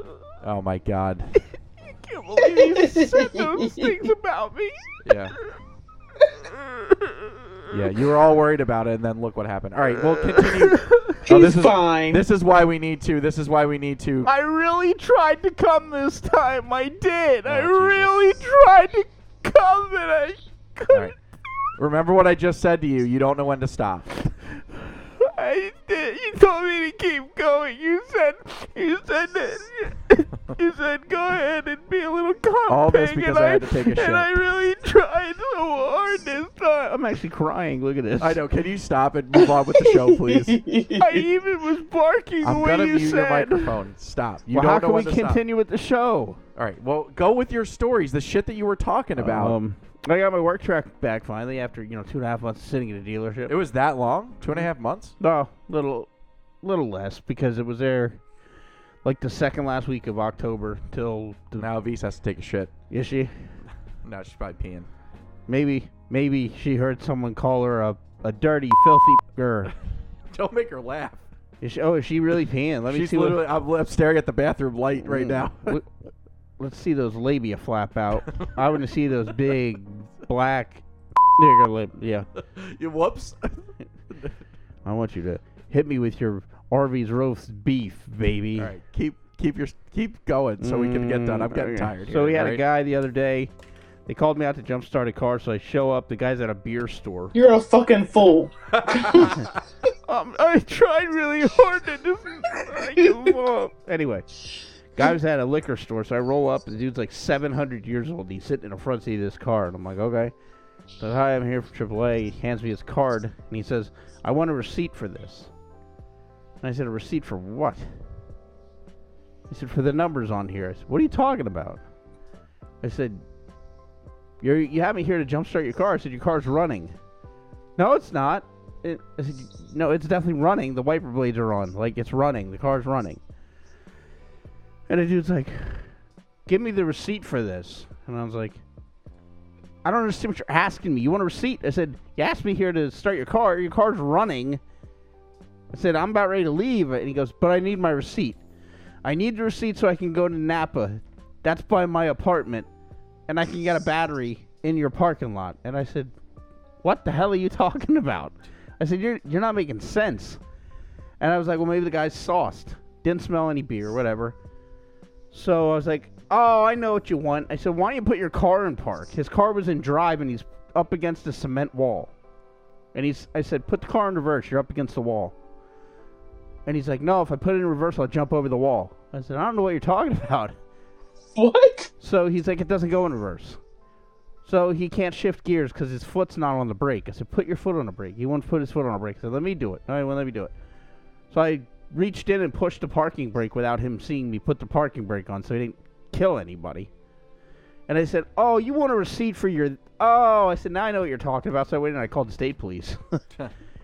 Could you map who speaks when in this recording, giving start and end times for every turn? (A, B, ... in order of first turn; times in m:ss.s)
0:00.4-0:01.3 A
0:01.8-0:04.8 B
0:02.8-0:03.8 C
0:05.0-0:05.3 A
0:07.7-0:14.3 A
0:10.3-0:11.2 B
0:11.3-0:12.2 C
0:14.2-0:21.1 B
0:17.4-0:18.1 A
0:20.9-0:21.1 A
0:21.8-0:24.1 A
0:25.2-0:38.4 B
0:32.7-0:34.3 A
0:38.2-0:40.6 A
0:39.8-0:41.2 C
0:41.0-0:43.7 B
0:42.4-0:45.4 A
0:44.5-0:46.4 B
0:46.6-0:49.6 A
0:49.2-0:53.5 B
0:53.5-0:55.2 A
0:55.2-0:56.1 B
0:56.6-0:58.2 B
0:59.0-1:01.7 B
1:01.6-1:02.7 A
1:02.9-1:03.3 B
1:04.0-1:04.9 A
1:05.5-1:09.7 B
1:10.3-1:11.2 A
1:11.6-1:13.4 B
1:12.9-1:15.8 A
1:15.0-1:15.9 B
1:16.6-1:20.8 B
1:21.4-1:22.3 B
1:22.5-1:24.3 A
1:24.8-1:28.7 B
1:28.6-1:32.6 A
1:30.6-1:33.5 B
1:34.1-1:37.3 B
1:37.3-1:39.3 C
1:38.7-1:39.3 A
1:40.0-1:44.3 B
1:44.9-1:50.3 B
1:51.0-1:55.5 B
1:56.6-1:57.8 B
1:59.5-2:01.8 B
2:02.8-2:03.2 B
2:04.4-2:06.9 B
2:07.8-2:13.2 B
2:14.9-2:15.8 B
2:16.5-2:18.6 B
2:19.8-2:24.6 B
2:25.7-2:28.4 B
2:29.0-2:32.7 B
2:33.3-2:36.1 B
2:36.8-2:40.4 B
2:41.2-2:44.3 B
2:45.3-2:52.1 B
2:52.9-2:55.3 B
2:56.6-3:00.5 B
3:01.4-3:01.9 C
3:02.0-3:03.6 B
3:04.4-3:10.5 B
3:11.3-3:16.9 B
3:17.9-3:23.2 B